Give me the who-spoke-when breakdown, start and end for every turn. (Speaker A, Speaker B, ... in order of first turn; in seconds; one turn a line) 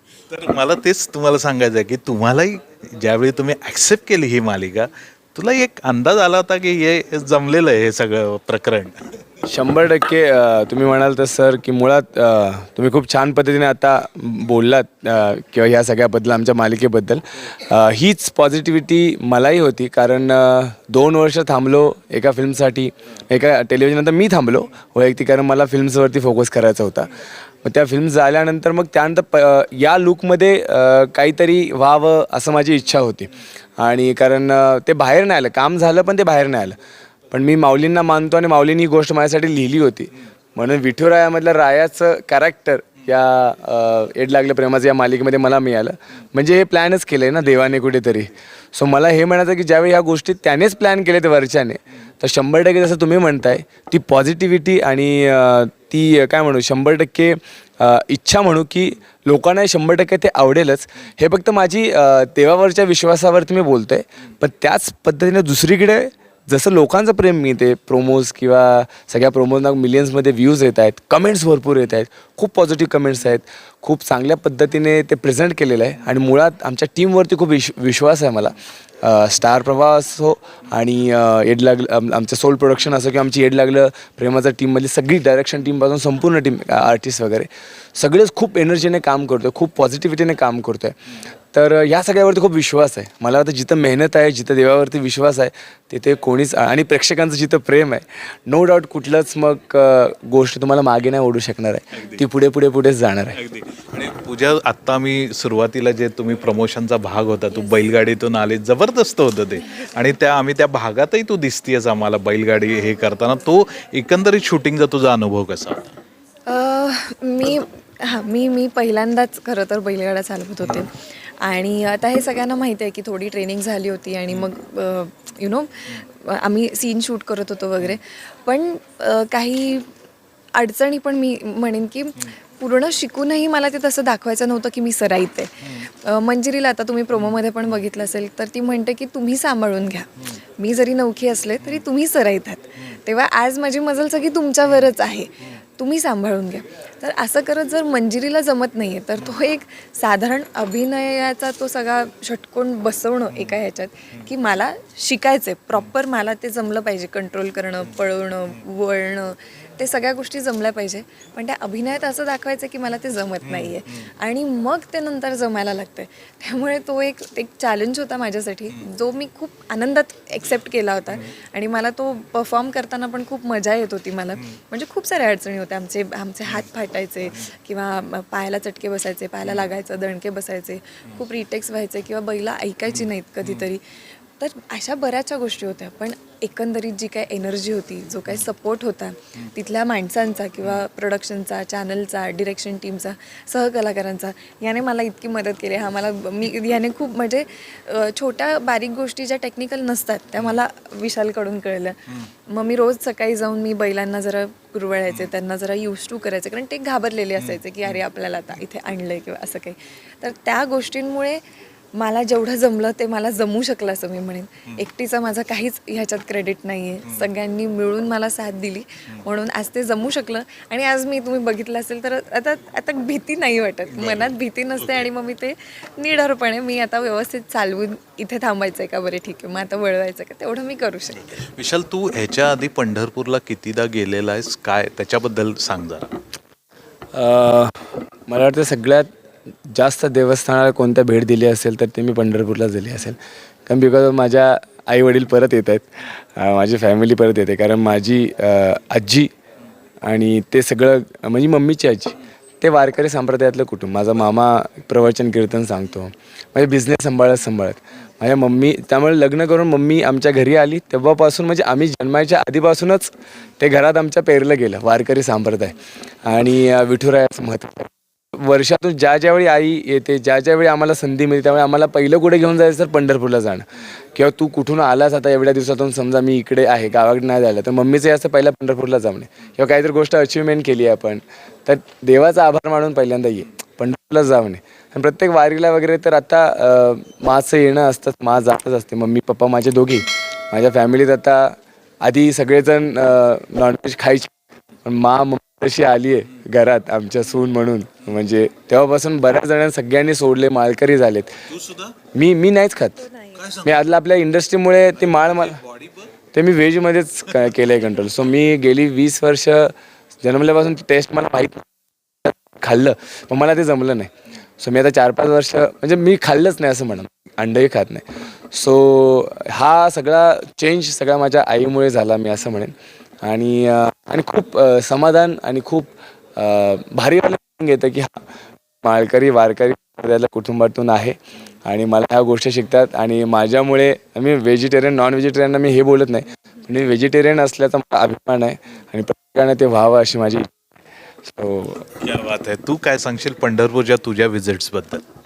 Speaker A: 0.3-8.9
Speaker B: 9.5-27.1
Speaker B: 27.6-36.8
Speaker B: 37.3-91.0
Speaker B: 91.5-103.4
Speaker A: 103.3-115.8
Speaker C: 116.5-129.9
Speaker C: 130.6-183.8
Speaker A: 163.5-163.7
Speaker C: 184.4-211.4
Speaker C: 211.9-231.3
Speaker A: 223.9-224.3
Speaker A: 231.3-236.1
Speaker B: 237.1-239.1
Speaker B: 239.7-249.3
Speaker B: 250.0-294.3
Speaker B: 294.8-301.4
Speaker A: 301.5-301.9
Speaker B: 302.1-303.0
Speaker C: 303.1-303.4
Speaker A: 303.4-303.8
Speaker B: 303.6-305.6
Speaker A: 304.9-306.1
Speaker B: 306.3-311.6
Speaker B: 312.2-328.2
Speaker B: 328.8-340.5
Speaker B: 341.2-341.8
Speaker A: 341.9-345.0